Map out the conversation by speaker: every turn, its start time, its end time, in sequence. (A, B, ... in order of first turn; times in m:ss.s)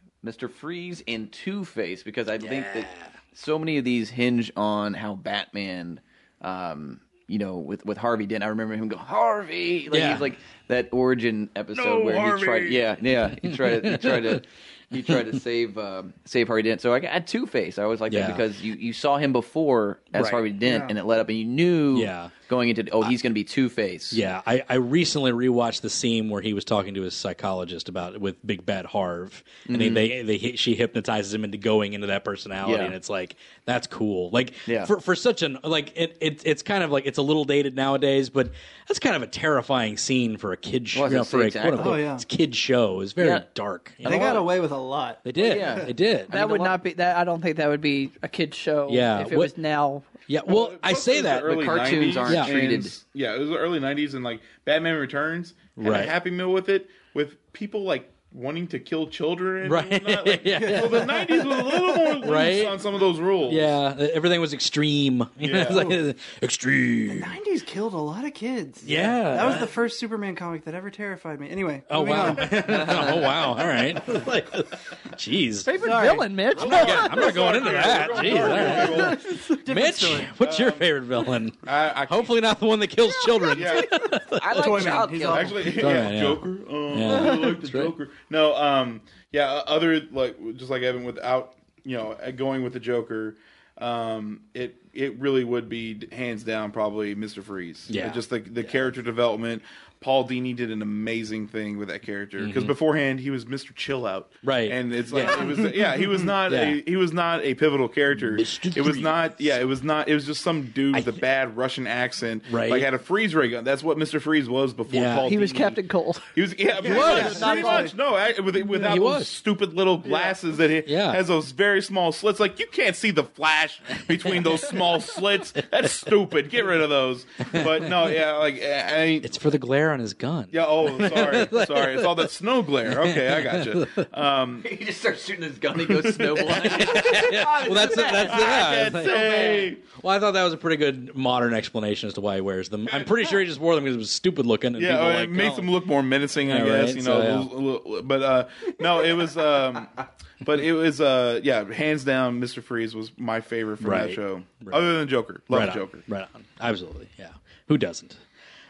0:00.2-0:24.2 A
0:02.4-0:03.1 B
0:09.9-0:10.3 B
0:11.7-0:14.4 B
0:18.1-0:18.4 B
0:20.2-0:20.4 B
0:20.6-0:20.9 C
0:21.9-0:22.3 B
0:24.1-0:44.4 B
0:29.7-0:30.1 A
0:32.6-0:33.0 A
0:40.9-0:42.0 A
0:41.8-0:42.2 C
0:43.2-0:43.5 A
0:44.0-0:44.5 A
0:44.0-0:45.9 C
0:45.2-0:46.4 B
0:45.4-0:46.8 A
0:46.3-0:50.1 D
0:48.9-0:49.5 B
0:50.3-0:52.6 B
0:50.5-1:03.8 E
0:51.4-0:53.0 A
0:55.8-0:56.1 B
0:59.6-1:02.8 B
1:00.6-1:01.0 C
1:03.5-1:07.4 B
1:05.4-1:06.0 E
1:05.7-1:06.0 C
1:07.1-1:13.0 C
1:08.8-1:09.7 B
1:11.9-1:15.7 B
1:15.7-1:17.3 D
1:15.7-1:16.4 C
1:16.5-1:19.4 E
1:16.6-1:25.0 B
1:18.3-1:20.3 C
1:20.4-1:20.9 E
1:21.6-1:22.3 E
1:23.5-1:24.0 E
1:24.3-1:25.7 A
1:24.5-1:25.7 C
1:25.3-1:55.8 E
1:25.8-1:27.9 B
1:37.9-1:38.2 B
1:42.4-1:42.8 B
1:44.4-1:45.6 B
1:46.4-1:46.8 B
1:48.3-1:49.2 B
1:50.9-1:51.2 B
1:52.5-1:52.9 B
1:54.9-1:55.4 B
1:55.2-1:56.3 D
1:56.4-2:09.3 E
1:56.8-1:57.9 C
1:56.8-1:57.7 B
1:56.9-1:57.9 D
1:58.8-1:59.3 B
2:00.9-2:01.2 B
2:04.1-2:05.0 B
2:05.6-2:06.1 B
2:07.5-2:08.1 B
2:09.2-2:12.3 B
2:10.5-2:14.7 E
2:12.8-2:14.1 B
2:14.6-2:19.7 A
2:16.1-2:16.7 E
2:16.4-2:25.7 B
2:18.0-2:19.8 E
2:24.8-2:36.0 E
2:26.4-2:27.5 B
2:33.8-2:34.9 B
2:35.5-2:38.2 B